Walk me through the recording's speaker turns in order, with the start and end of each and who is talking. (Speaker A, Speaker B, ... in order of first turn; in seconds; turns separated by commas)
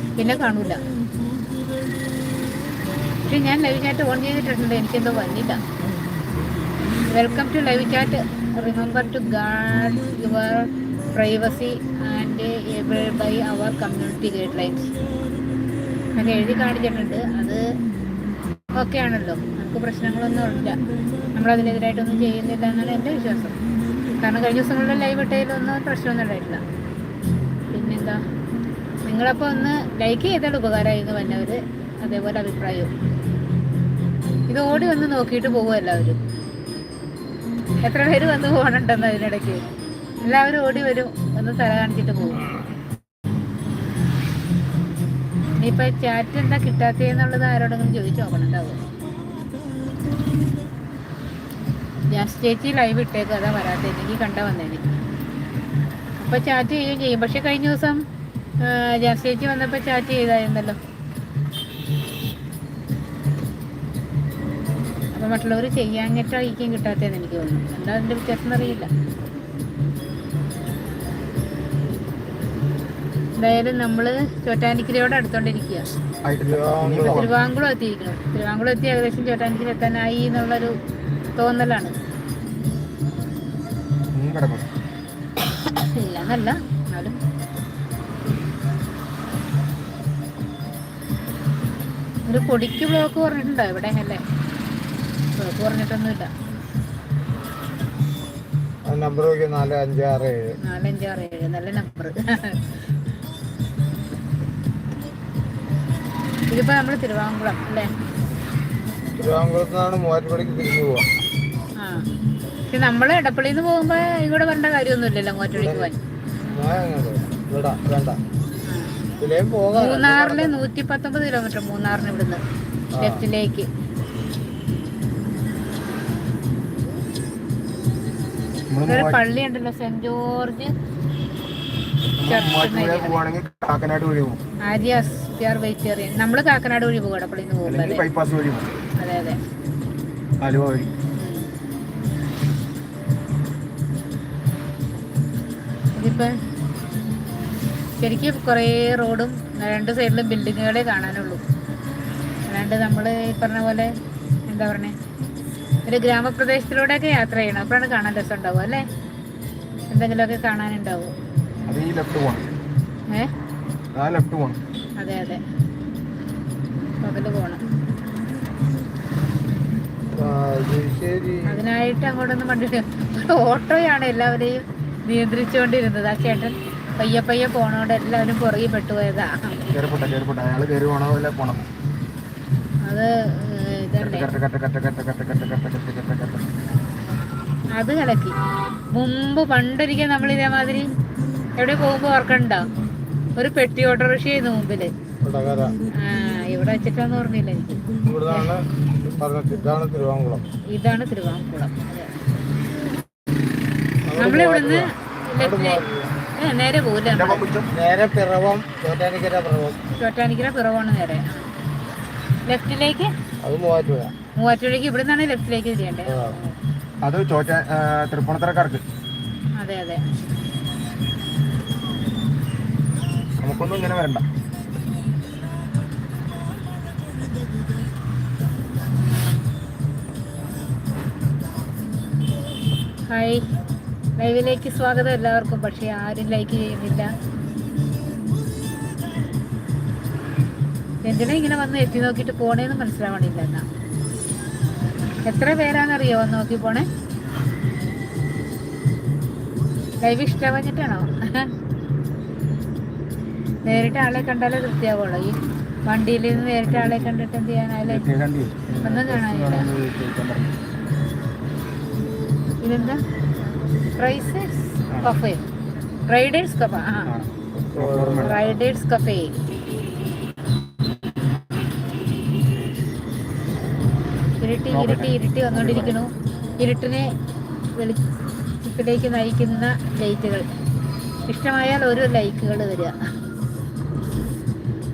Speaker A: 0.2-0.8, Speaker A: 3.2-5.6, Speaker A: 7.1-14.9, Speaker A: 16.1-17.7, Speaker A: 18.8-20.8, Speaker A: 21.4-23.5, Speaker A: 24.2-26.6, Speaker A: 27.7-28.2, Speaker A: 29.1-32.9, Speaker A: 34.5-36.2, Speaker A: 37.8-39.6, Speaker A: 40.2-42.4, Speaker A: 45.6-48.8, Speaker A: 52.1-54.9, Speaker A: 56.2-58.0, Speaker A: 58.6-60.8, Speaker A: 65.1-68.9, Speaker A: 73.4-75.9, Speaker B: 76.2-77.3, Speaker C: 76.4-77.3, Speaker A: 77.0-80.7, Speaker A: 81.4-81.9, Speaker B: 84.1-84.7, Speaker A: 85.8-87.2, Speaker A: 92.3-94.2, Speaker A: 95.4-96.3, Speaker C: 98.8-100.6, Speaker A: 100.6-102.6, Speaker A: 106.5-107.9, Speaker C: 109.2-111.1, Speaker A: 111.8-112.0, Speaker A: 112.7-116.0, Speaker C: 115.5-115.9, Speaker C: 116.5-118.2, Speaker A: 118.7-118.9, Speaker C: 119.2-120.6, Speaker A: 119.7-122.4, Speaker C: 122.9-123.2, Speaker A: 123.0-123.7, Speaker B: 128.7-129.2, Speaker A: 128.9-130.7, Speaker B: 132.2-134.4, Speaker A: 132.3-133.2, Speaker A: 134.6-138.0, Speaker B: 137.7-138.7, Speaker A: 139.0-139.4, Speaker B: 140.4-140.9, Speaker A: 141.2-141.5, Speaker A: 145.9-146.3, Speaker A: 148.0-151.4, Speaker A: 152.5-153.9, Speaker A: 154.5-154.9, Speaker A: 155.9-158.8, Speaker A: 159.9-161.1, Speaker B: 161.7-162.5, Speaker B: 163.9-164.6, Speaker A: 165.0-165.4, Speaker A: 167.0-167.6, Speaker C: 170.1-171.6, Speaker A: 171.5-179.6, Speaker B: 179.7-181.7, Speaker A: 182.8-184.3, Speaker B: 184.0-186.4, Speaker A: 187.7-188.3, Speaker A: 188.9-190.9, Speaker A: 191.6-192.7, Speaker A: 193.4-194.9, Speaker C: 195.2-195.8, Speaker A: 196.0-198.5, Speaker C: 198.1-200.4, Speaker A: 200.7-202.1, Speaker C: 204.1-206.1, Speaker A: 204.2-205.8, Speaker A: 206.4-207.4, Speaker B: 207.1-207.7, Speaker C: 207.7-209.8, Speaker A: 210.0-211.5, Speaker A: 212.5-213.1, Speaker C: 213.4-214.1, Speaker A: 214.4-216.5, Speaker C: 216.1-216.3, Speaker B: 217.0-218.8, Speaker A: 219.6-220.0, Speaker B: 223.4-224.2, Speaker A: 233.1-233.4, Speaker A: 234.2-237.1, Speaker A: 241.0-243.7, Speaker A: 245.2-246.9, Speaker A: 250.0-251.5, Speaker A: 253.7-258.0, Speaker B: 256.5-257.1, Speaker B: 257.9-260.5, Speaker A: 258.8-259.7, Speaker A: 262.6-263.0, Speaker A: 264.0-265.4, Speaker B: 264.9-265.2, Speaker A: 266.1-267.1, Speaker B: 267.1-268.5, Speaker C: 267.7-268.6, Speaker A: 268.2-269.3, Speaker A: 274.4-277.1, Speaker B: 274.7-276.0, Speaker A: 278.6-280.5, Speaker A: 281.3-282.9